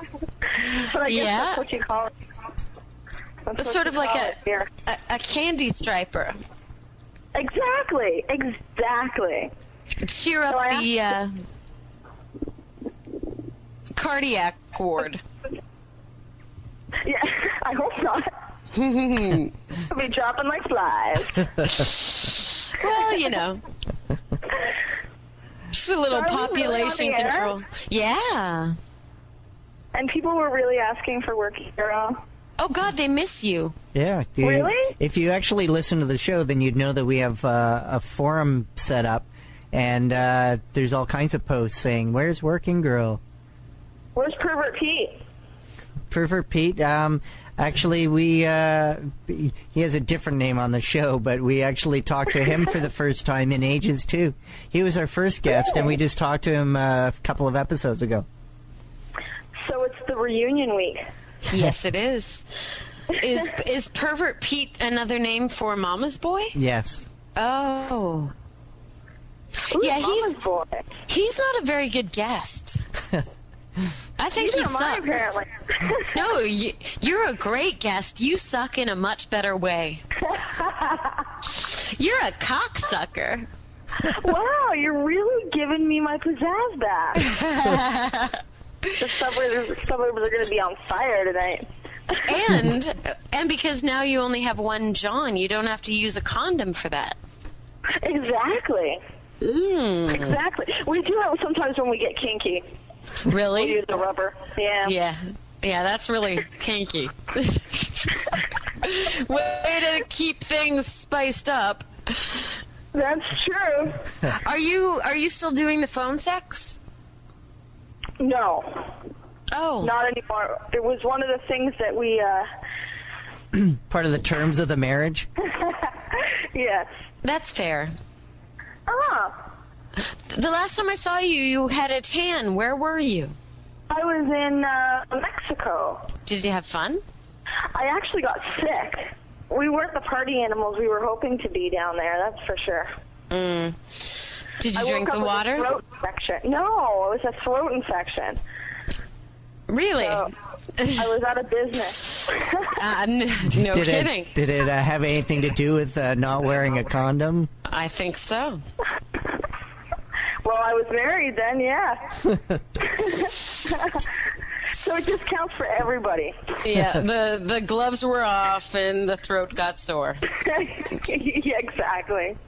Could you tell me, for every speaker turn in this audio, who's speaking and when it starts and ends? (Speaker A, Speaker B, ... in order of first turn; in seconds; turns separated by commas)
Speaker A: 0.6-1.6, Speaker B: 0.7-2.1, Speaker B: 3.5-4.7, Speaker A: 3.6-6.4, Speaker B: 7.3-9.5, Speaker A: 10.0-11.3, Speaker B: 10.5-10.9, Speaker A: 13.9-15.2, Speaker B: 17.0-18.3, Speaker A: 18.7-19.5, Speaker B: 19.9-21.6, Speaker A: 21.6-23.6, Speaker A: 25.7-28.8, Speaker B: 26.1-27.5, Speaker B: 29.9-32.2, Speaker A: 32.6-33.7, Speaker C: 33.9-43.2, Speaker B: 34.4-34.9, Speaker B: 44.1-45.2, Speaker C: 46.1-58.2, Speaker B: 59.6-61.0, Speaker A: 61.5-62.5, Speaker A: 63.1-66.5, Speaker C: 66.5-67.1, Speaker A: 67.3-68.3, Speaker B: 69.7-70.9, Speaker A: 69.7-70.4, Speaker A: 71.1-72.8, Speaker A: 74.2-75.4, Speaker B: 74.3-76.2, Speaker A: 76.0-80.0, Speaker B: 80.3-81.2, Speaker A: 81.4-83.5, Speaker B: 84.0-87.3, Speaker A: 87.2-88.4, Speaker B: 89.0-92.2, Speaker A: 92.2-97.2, Speaker B: 98.0-99.0, Speaker A: 99.4-100.4, Speaker B: 100.1-102.7, Speaker A: 103.2-103.8, Speaker B: 103.5-104.9, Speaker A: 104.8-112.6, Speaker B: 112.9-114.0, Speaker A: 114.2-116.8, Speaker B: 118.2-118.9, Speaker A: 119.5-119.9, Speaker B: 119.8-122.5, Speaker C: 123.5-125.3, Speaker B: 125.5-126.9, Speaker A: 127.2-127.9, Speaker B: 128.9-129.4, Speaker A: 130.0-133.3, Speaker B: 133.9-136.1, Speaker A: 136.2-137.0, Speaker B: 137.7-142.9, Speaker A: 143.3-145.7, Speaker B: 144.7-148.4, Speaker A: 149.7-151.1, Speaker B: 150.0-150.3, Speaker B: 150.9-152.7, Speaker A: 152.6-154.3, Speaker C: 153.4-157.5, Speaker A: 157.7-158.6, Speaker B: 160.4-162.1, Speaker B: 162.8-164.1, Speaker B: 164.7-166.5, Speaker A: 166.6-170.2, Speaker B: 170.4-172.4